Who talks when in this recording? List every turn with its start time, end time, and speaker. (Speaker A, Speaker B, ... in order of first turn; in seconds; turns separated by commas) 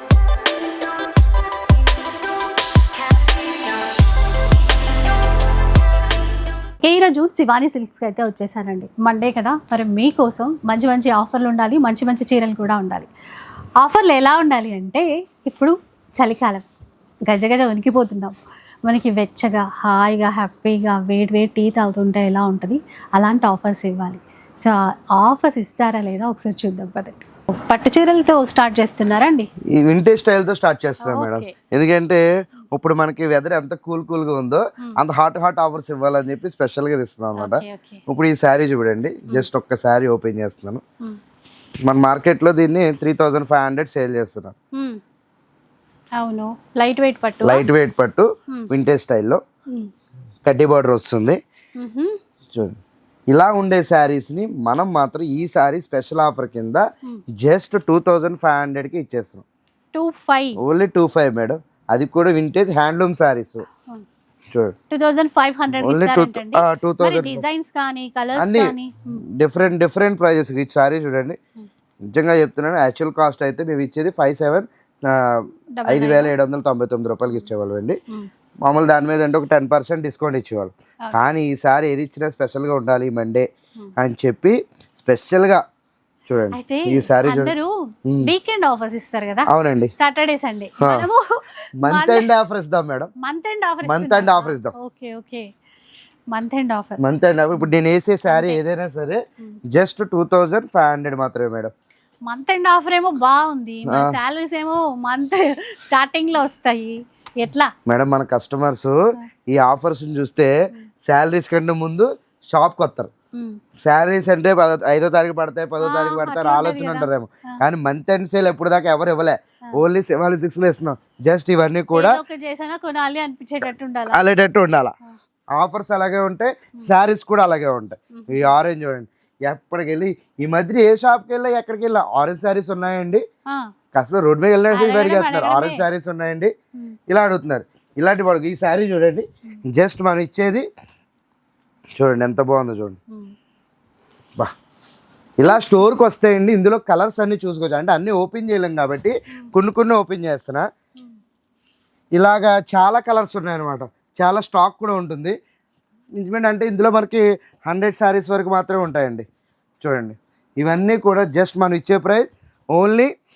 Speaker A: 6.8-13.1, Speaker A: 13.8-16.6, Speaker A: 17.3-29.5, Speaker B: 29.7-40.8, Speaker A: 31.0-31.5, Speaker A: 37.4-38.0, Speaker B: 41.8-44.6, Speaker A: 44.8-45.0, Speaker A: 46.2-47.7, Speaker B: 47.4-49.4, Speaker B: 50.4-51.4, Speaker A: 51.8-52.2, Speaker B: 52.5-52.8, Speaker B: 53.3-56.8, Speaker B: 57.4-59.4, Speaker A: 59.9-60.6, Speaker B: 60.6-63.6, Speaker B: 64.5-64.8, Speaker A: 64.9-69.2, Speaker B: 65.8-67.4, Speaker B: 68.3-71.4, Speaker B: 72.0-78.0, Speaker A: 75.8-76.3, Speaker B: 78.6-85.6, Speaker B: 86.3-87.5, Speaker A: 86.5-92.3, Speaker B: 89.5-89.9, Speaker B: 90.8-91.1, Speaker B: 91.8-93.1, Speaker A: 93.2-95.5, Speaker B: 93.8-94.7, Speaker A: 96.3-97.0, Speaker B: 97.0-101.7, Speaker A: 98.3-98.6, Speaker A: 102.2-107.7, Speaker B: 103.9-104.2, Speaker B: 107.8-113.1, Speaker B: 113.8-122.2, Speaker A: 115.8-117.6, Speaker A: 121.9-124.2, Speaker B: 124.1-124.9, Speaker B: 125.6-133.2, Speaker A: 128.1-128.5, Speaker B: 133.9-136.5, Speaker A: 134.7-135.8, Speaker B: 137.1-140.7, Speaker B: 142.0-143.0, Speaker B: 145.4-150.7, Speaker B: 152.2-155.3, Speaker B: 156.2-159.2, Speaker B: 159.8-163.1